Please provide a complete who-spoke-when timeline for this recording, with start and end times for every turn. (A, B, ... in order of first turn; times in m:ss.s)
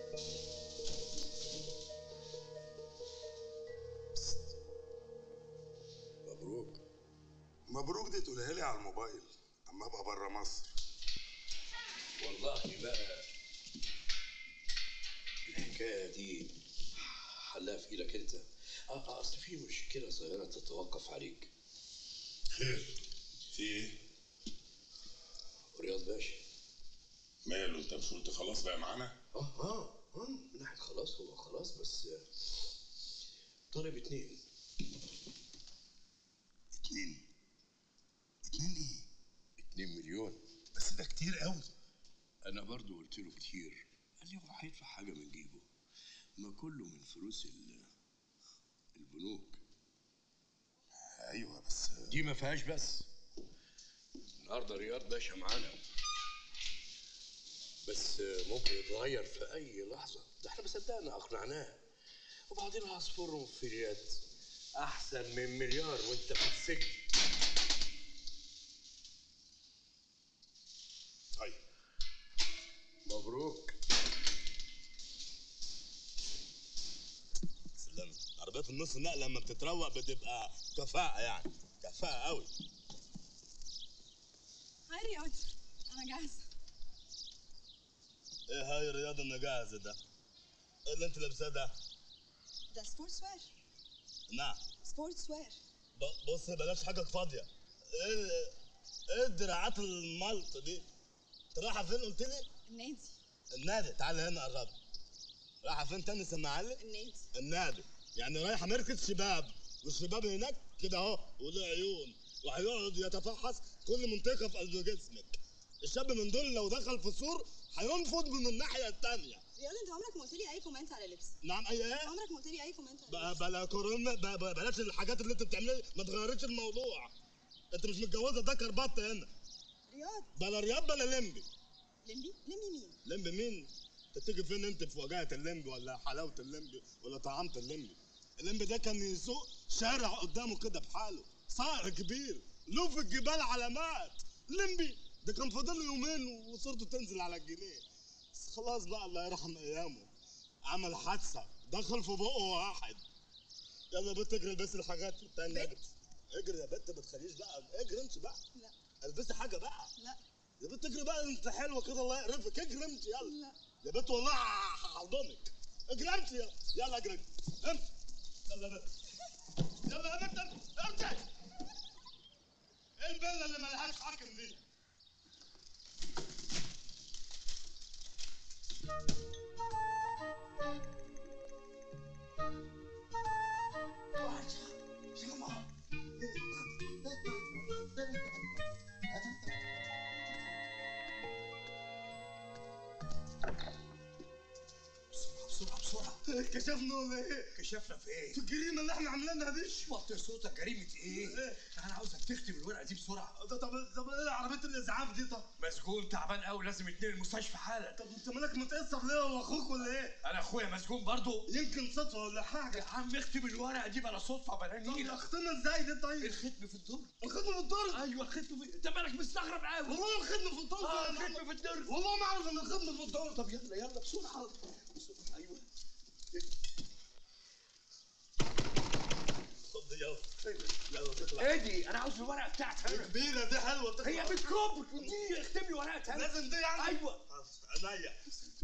0:06.2-0:06.8 A
0:07.7-0:10.7 B
0:12.2-0:13.3 A
0:15.5-0:21.5 A
0:22.6-0:22.9 B
0:23.5-0:24.0 B
0:25.7-0:26.4 A
0:27.4-0:29.2 B
0:29.3-0:32.3 A
0:33.7-0:34.4 A
0:36.8-0:37.2 C
0:38.5-0:39.1 C
0:39.6-0:40.4 A
0:40.7-0:41.7 C
0:42.4-0:45.7 A
0:46.4-0:47.9 A
0:49.0-0:49.6 A
0:51.1-0:52.2 B
0:52.1-0:53.1 A
0:54.4-0:55.8 A
0:57.8-1:01.8 A
1:02.5-1:04.2 A
1:04.8-1:07.0 A
1:13.0-1:13.8 A
1:17.8-1:22.5 C
1:24.9-1:26.5 D
1:28.5-1:30.0 C
1:30.9-1:31.7 C
1:32.7-1:33.5 D
1:34.3-1:34.6 C
1:34.8-1:35.6 D
1:36.0-1:38.5 C
1:39.1-1:40.8 C
1:41.5-1:42.5 C
1:42.7-1:43.2 D
1:43.5-1:44.8 C
1:45.6-1:46.8 C
1:46.8-1:47.3 D
1:47.3-1:59.4 C
1:59.6-2:01.4 D
2:01.4-2:02.2 C
2:02.0-2:03.4 D
2:03.1-2:07.1 C
2:07.7-2:09.3 C
2:09.9-2:10.3 D
2:10.4-2:11.5 C
2:12.0-2:13.0 D
2:13.0-2:30.1 C
2:30.6-2:33.0 C
2:33.9-2:38.4 C
2:35.5-2:35.8 D
2:39.0-2:39.9 C
2:40.6-2:47.8 C
2:43.2-2:43.6 D
2:48.5-2:48.9 C
2:49.9-2:51.2 C
2:53.0-2:54.6 C
3:04.2-3:05.6 C
3:06.2-3:08.4 C
3:09.1-3:09.4 C
3:15.1-3:16.2 E
3:16.3-3:17.5 C
3:17.6-3:18.4 E
3:18.3-3:19.9 C
3:19.8-3:23.4 E
3:21.0-3:21.6 C
3:23.4-3:25.5 C
3:25.6-3:28.0 E
3:28.0-3:30.2 C
3:30.2-3:31.5 E
3:31.5-3:32.9 C
3:32.7-3:35.3 E
3:34.8-3:36.4 C
3:36.2-3:37.1 E
3:37.2-3:38.0 C
3:37.9-3:40.0 E
3:39.8-3:45.6 C
3:40.8-3:42.0 E
3:49.7-3:51.6 C
3:51.4-3:53.2 E
3:52.8-3:54.5 C
3:54.0-3:57.2 E
3:55.0-3:55.3 C
3:56.1-3:58.2 C